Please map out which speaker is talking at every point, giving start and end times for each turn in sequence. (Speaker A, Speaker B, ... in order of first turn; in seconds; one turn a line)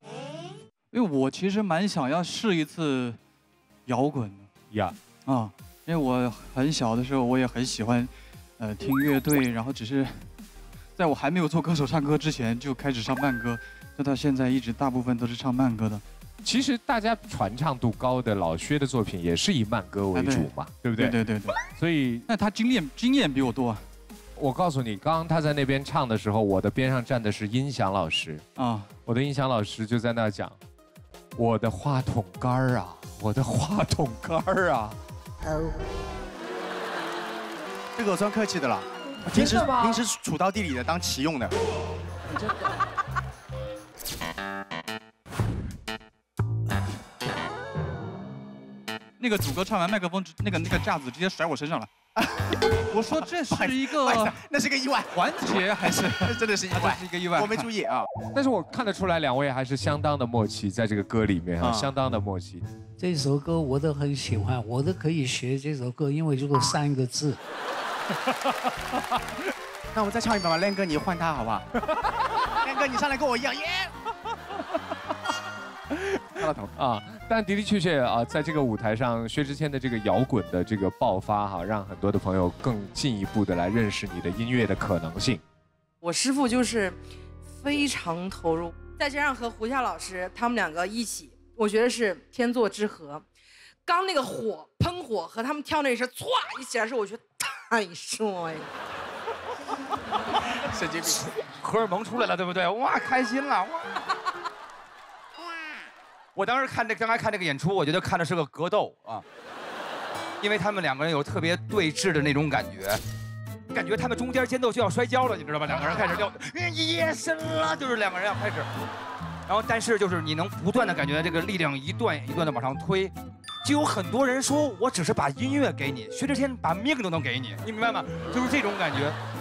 Speaker A: 0.9-3.2
Speaker A: 3.9-4.5
Speaker B: 4.7-5.0
Speaker A: 5.2-10.3
Speaker A: 11.0-16.0
Speaker B: 16.4-21.2
Speaker A: 20.1-21.6
Speaker B: 21.7-22.3
Speaker A: 22.3-23.9
Speaker B: 24.4-28.4
Speaker A: 28.6-28.9
Speaker B: 29.1-30.6
Speaker B: 31.4-35.0
Speaker C: 38.0-41.5
Speaker B: 39.3-39.8
Speaker A: 49.2-51.9
Speaker A: 52.9-54.4
Speaker C: 53.5-58.1
Speaker A: 55.1-57.7
Speaker B: 58.3-62.6
Speaker C: 61.6-61.9
Speaker D: 63.0-67.4
Speaker C: 69.9-71.7
Speaker C: 72.5-73.9
Speaker C: 76.2-76.7
Speaker B: 76.8-85.4
Speaker E: 86.0-87.0
Speaker E: 87.5-93.2
Speaker E: 93.9-98.7
Speaker C: 100.7-101.2
Speaker F: 101.6-103.9
Speaker F: 106.3-109.2
Speaker F: 110.4-113.0
Speaker F: 113.7-118.7
Speaker F: 119.5-129.2